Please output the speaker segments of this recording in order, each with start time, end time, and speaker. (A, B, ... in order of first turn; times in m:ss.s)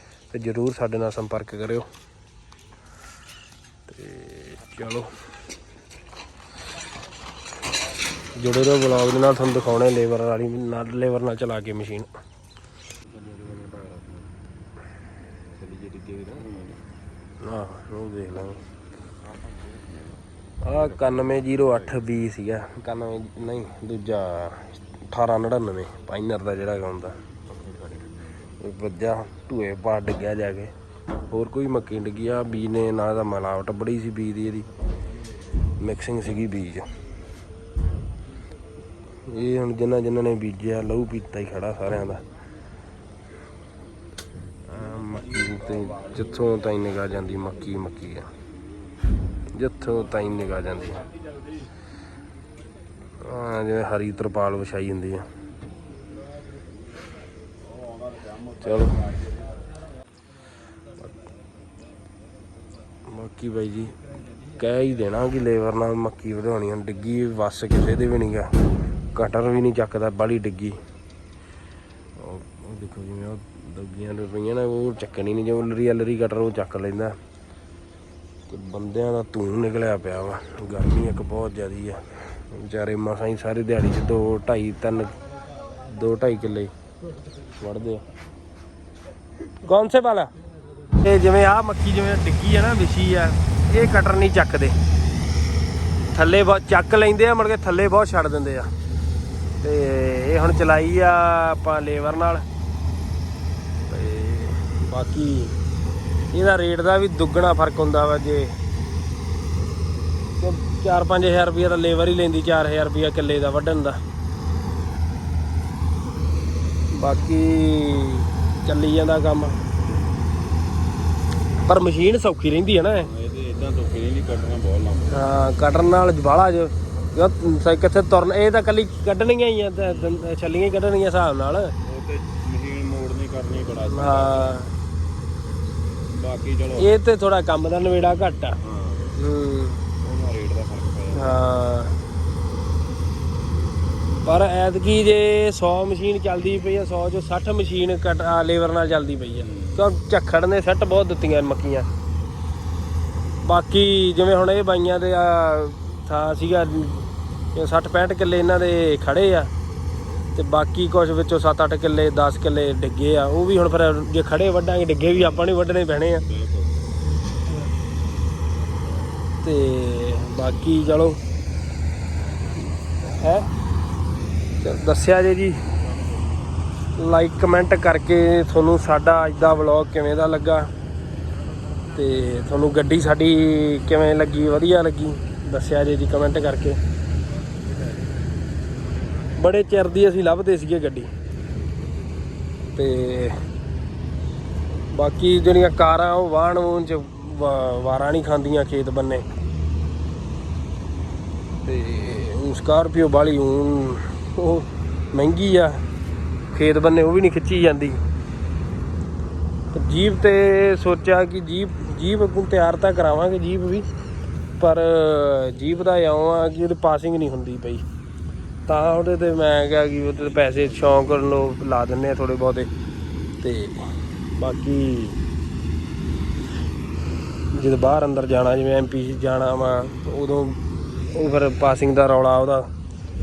0:00.3-0:01.9 A
0:03.9-0:05.1 A
0:08.4-0:12.1 A
0:13.2-0:14.2 B
0:15.6-0:16.8 B
0:17.4-0:18.6 A
0:19.8-0:20.2 B
0:20.6-0:27.2 A
0:28.6-0:30.7 A
0:31.3-0:34.7 A
0:35.8-0:36.9 A
0:39.2-0:42.2 A
0:44.7-0:48.3 A
0:49.5-0:51.1 A
0:53.2-0:55.3 A
0:58.6-0:59.2 A
1:03.1-1:04.0 A
1:04.6-1:08.5 A
1:09.1-1:10.8 A
1:12.2-1:17.2 A
1:18.5-1:25.2 A
1:25.8-1:26.7 A
1:27.6-1:28.0 A
1:29.6-1:30.3 A
1:30.9-1:34.8 A
1:36.1-1:38.7 A
1:39.6-1:42.4 A
1:43.9-1:45.6 A
1:46.3-1:48.6 A
1:50.4-1:54.0 A
1:57.0-1:59.6 A
2:01.6-2:03.1 A
2:03.0-2:05.3 B
2:05.1-2:11.7 A
2:11.8-2:14.6 B
2:13.8-2:14.7 A
2:16.1-2:17.0 B
2:16.8-2:18.6 A
2:18.6-2:19.1 B
2:19.1-2:19.8 A
2:20.0-2:21.4 B
2:21.1-2:22.0 A
2:24.2-2:31.9 A
2:29.4-2:29.8 B
2:33.4-2:39.5 A
2:40.4-2:46.2 A
2:46.2-2:46.7 B
2:49.0-2:51.2 A
2:53.0-2:53.5 A
2:54.6-2:55.6 A
2:57.0-3:00.7 A
3:01.9-3:06.8 A
3:09.4-3:11.1 A
3:12.8-3:13.4 A
3:14.9-3:19.3 A
3:21.6-3:25.8 A
3:26.5-3:28.0 A
3:29.7-3:33.9 A
3:34.6-3:37.8 A
3:38.7-3:42.7 A
3:43.4-3:45.2 A
3:47.5-3:52.7 A